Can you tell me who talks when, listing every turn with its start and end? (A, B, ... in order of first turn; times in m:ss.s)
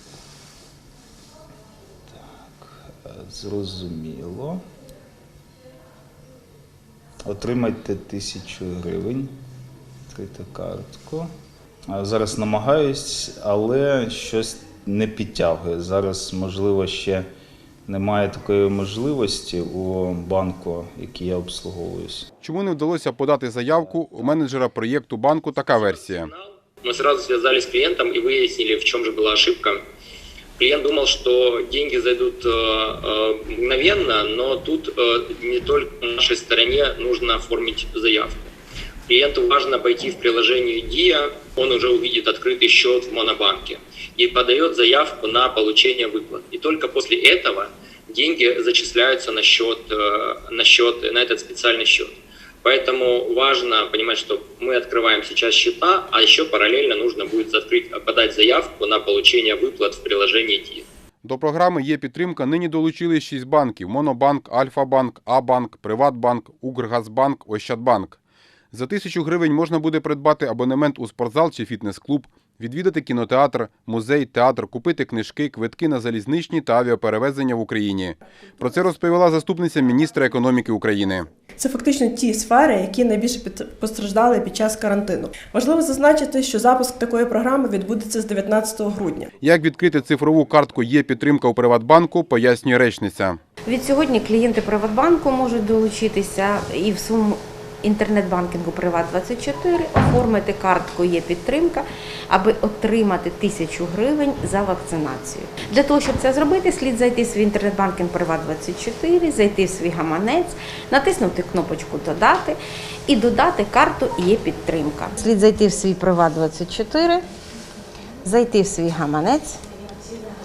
0:02.1-0:04.6 A
0:07.2-0:09.3 A
0:10.1-0:11.3 A
0:11.9-0:17.2 A
0:17.9-0:22.3 A
0:22.4-0:26.3 B
0:25.7-0:29.8 C
0:30.6-0:38.5 C
0:39.1-1:00.8 C
1:01.2-1:08.2 B
1:08.7-1:21.3 B
1:21.6-1:29.3 D
1:29.4-1:33.4 B
1:33.7-1:57.2 E
1:58.2-1:59.6 E